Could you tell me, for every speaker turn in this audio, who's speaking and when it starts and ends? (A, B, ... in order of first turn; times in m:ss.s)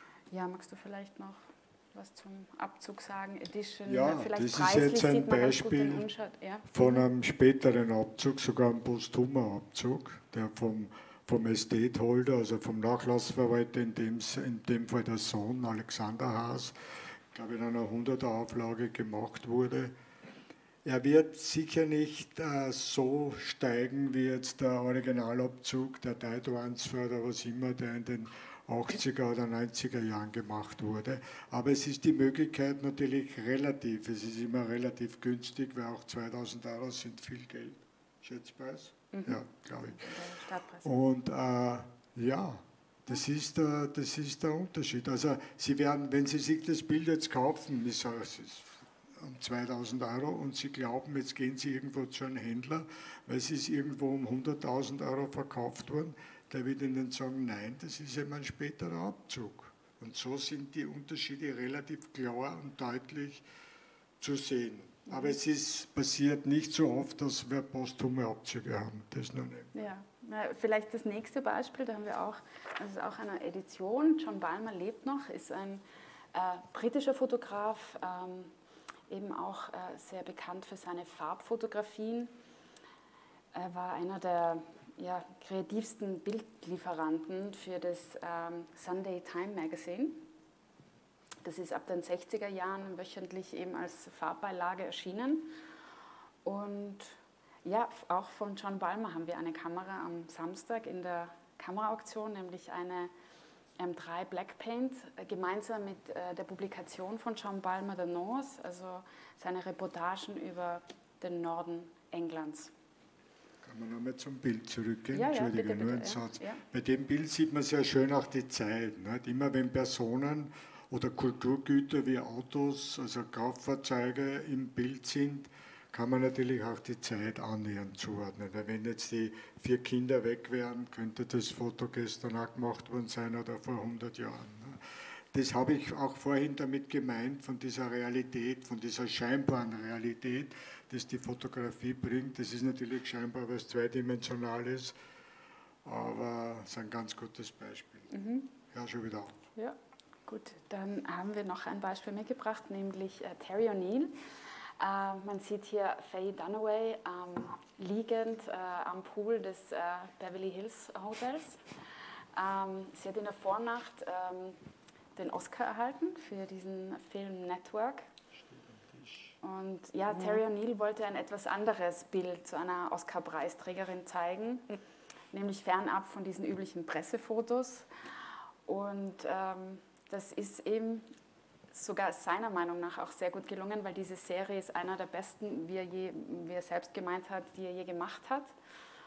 0:00.3-0:07.0 A
0:03.8-0:06.1 B
0:06.7-0:16.8 B
0:17.3-0:19.9 B
0:20.8-0:40.2 B
0:39.1-0:40.9 A
0:40.8-1:03.4 B
1:04.2-1:09.7 B
1:05.1-1:05.4 A
1:09.7-1:18.5 A
1:19.1-1:22.3 A
1:23.5-1:30.3 A
1:31.4-1:35.5 A
1:36.4-1:43.1 A
1:43.8-1:52.7 A
1:53.6-2:25.0 B
1:55.1-1:56.6 A
2:25.8-2:28.1 B
2:28.1-2:28.5 A
2:28.7-2:29.4 B
2:30.3-2:34.2 A
2:34.8-2:41.6 A
2:42.3-2:44.6 A
2:45.2-2:48.1 A
2:48.4-2:49.3 B
2:49.4-2:54.8 A
2:55.3-2:57.9 A
2:58.6-3:01.1 A
3:01.7-3:08.5 A